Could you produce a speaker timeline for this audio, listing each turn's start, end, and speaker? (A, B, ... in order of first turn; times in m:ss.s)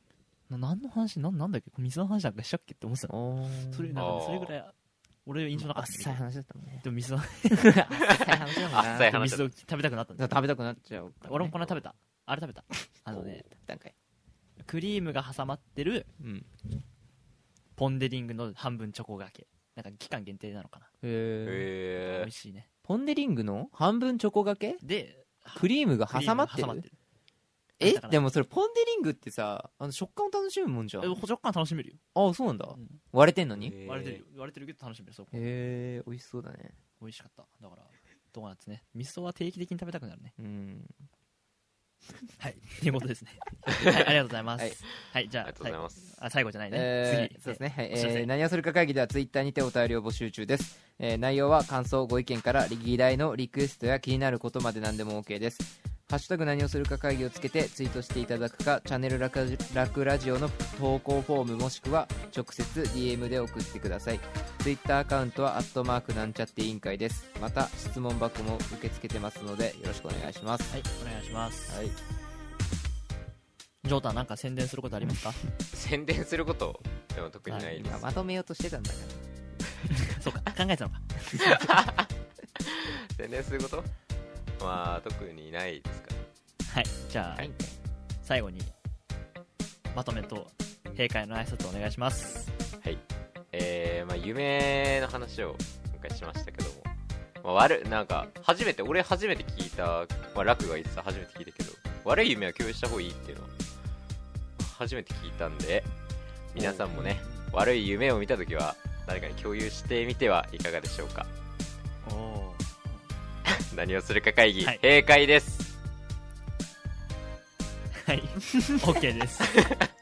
0:00.5-0:03.1 A
0:03.1-0:04.0 B
0:03.7-0:04.7 A
0:04.0-0:04.5 C
0:05.2-0:06.2 A
0:05.5-0:06.8 B
0:06.8-0:10.4 A
0:07.6-0:09.2 B
0:08.0-0:09.5 C
0:10.2-0:11.8 B
0:11.2-0:13.4 A
0:13.1-0:13.9 B
0:14.6-0:16.1 A
0:16.2-0:16.5 B
0:17.8-0:20.9 A
0:21.0-0:21.7 B
0:21.4-0:22.3 C
0:22.0-0:22.7 A
0:22.8-0:24.8 B
0:24.8-0:26.9 A
0:25.5-0:26.8 B
0:27.8-0:31.2 B
0:27.8-0:28.2 A
0:31.0-0:32.0 A
0:32.1-0:33.8 B
0:32.7-0:33.0 A
0:33.6-0:34.2 C
0:33.8-0:35.4 A
0:35.3-0:36.8 B
0:37.0-0:40.3 A
0:40.4-0:41.0 B
0:42.4-0:48.3 A
0:45.4-0:46.2 C
0:46.7-1:10.7 B
1:10.7-1:11.8 A
1:11.7-1:12.0 B
1:13.8-1:15.4 A
1:15.7-1:18.2 C
1:17.5-1:19.2 B
1:19.9-1:21.5 A
1:21.4-1:22.1 C
1:22.6-1:23.9 C
1:24.6-1:26.2 C
1:26.7-1:27.5 A
1:27.4-1:27.8 B
1:28.2-1:28.7 A
1:29.9-1:32.5 A
1:33.5-1:36.9 C
1:37.4-1:43.5 C
1:44.6-1:45.9 C
1:46.5-1:51.3 C
1:46.6-1:47.4 A
1:52.0-1:53.0 A
1:53.5-1:55.7 C
1:57.9-1:59.5 A
1:59.5-1:59.9 C